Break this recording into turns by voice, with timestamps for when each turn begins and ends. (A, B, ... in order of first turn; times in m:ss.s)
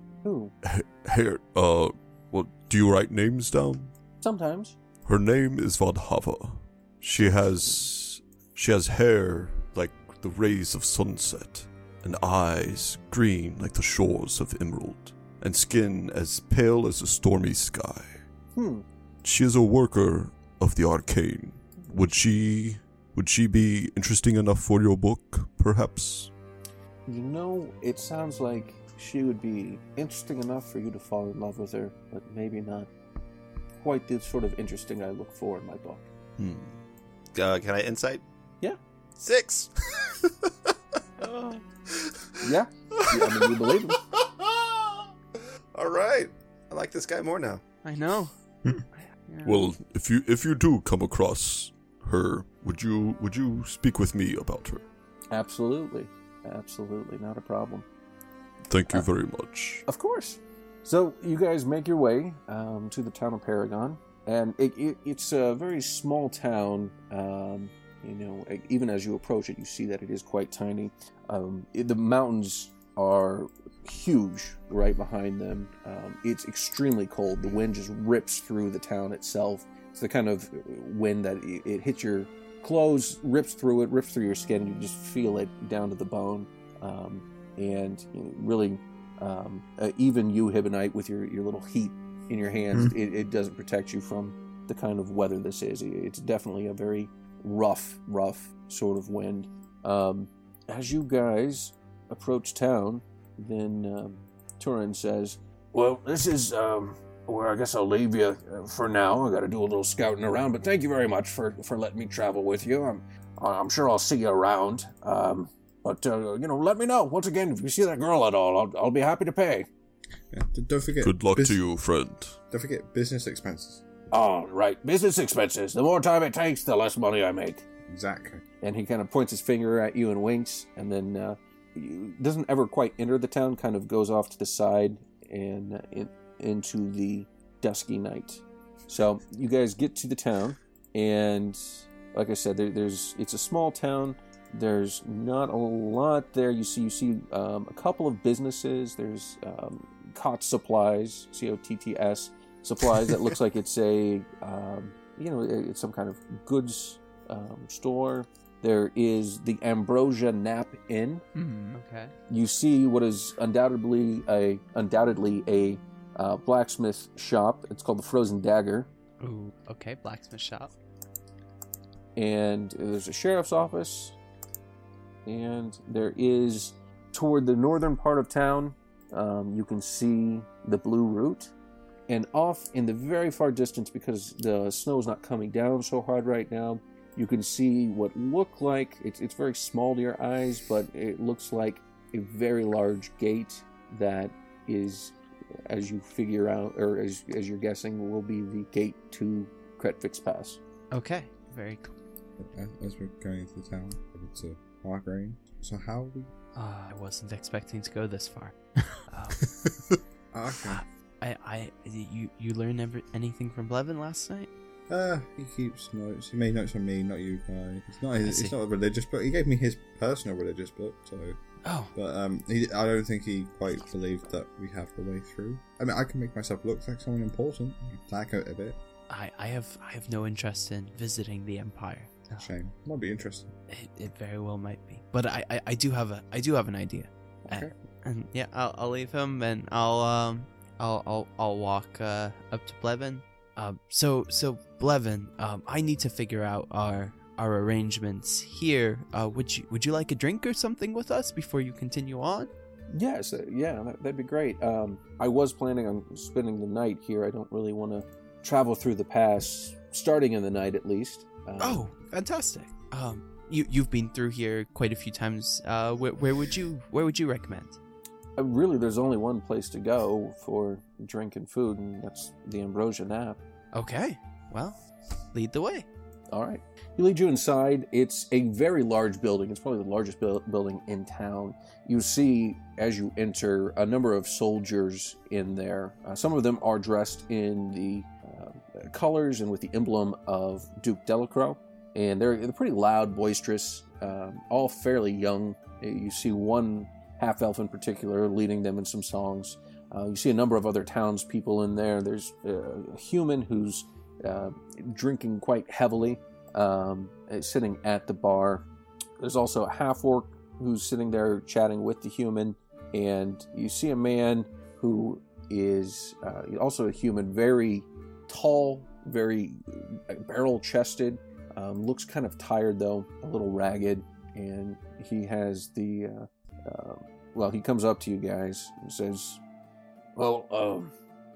0:00.2-0:00.5 A
0:00.6-0:03.9 B
0:04.2-0:04.8 A
0:05.0-0:18.2 B
0:07.2-0:07.8 A
0:18.6-0:18.8 A
0:19.2-0:26.3 B
0:27.1-0:32.9 A
0:33.8-0:36.0 A
0:36.4-0:36.8 C
0:37.3-0:38.2 C
0:39.2-0:40.4 C
0:41.2-0:41.6 D
0:42.0-0:45.0 C
0:42.4-0:44.0 A
0:45.7-0:47.6 C
0:47.8-0:48.3 D
0:48.9-0:49.7 D
0:49.4-0:54.8 B
0:55.3-0:57.8 A
0:58.7-0:59.8 B
0:59.9-1:59.7 A
2:00.3-2:01.6 E
2:01.0-2:02.4 B
2:02.5-2:03.8 E
2:04.1-2:07.6 A
2:07.9-2:08.4 E
2:08.6-2:41.3 A
2:41.4-2:42.1 D
2:42.3-2:48.9 A
2:49.2-2:50.7 D
2:52.2-2:54.2 A
2:55.2-3:01.5 A
3:02.1-3:15.1 A
3:15.7-3:20.6 A
3:20.9-3:21.9 D
3:22.4-3:26.3 E
3:26.5-3:29.4 D
3:30.3-3:30.8 E
3:30.6-3:34.5 D
3:34.9-3:41.4 E
3:38.2-3:38.5 D
3:41.6-3:41.9 D
3:41.9-3:48.8 E
3:49.1-3:52.5 D
3:52.4-3:53.5 E
3:53.7-4:12.5 D
3:57.4-3:57.7 E
4:12.9-4:21.9 A
4:21.6-4:27.8 D
4:28.4-4:33.4 A
4:33.7-4:34.8 D
4:35.3-4:35.9 D
4:36.3-5:08.6 A
5:09.2-5:29.4 A
5:30.2-5:30.9 A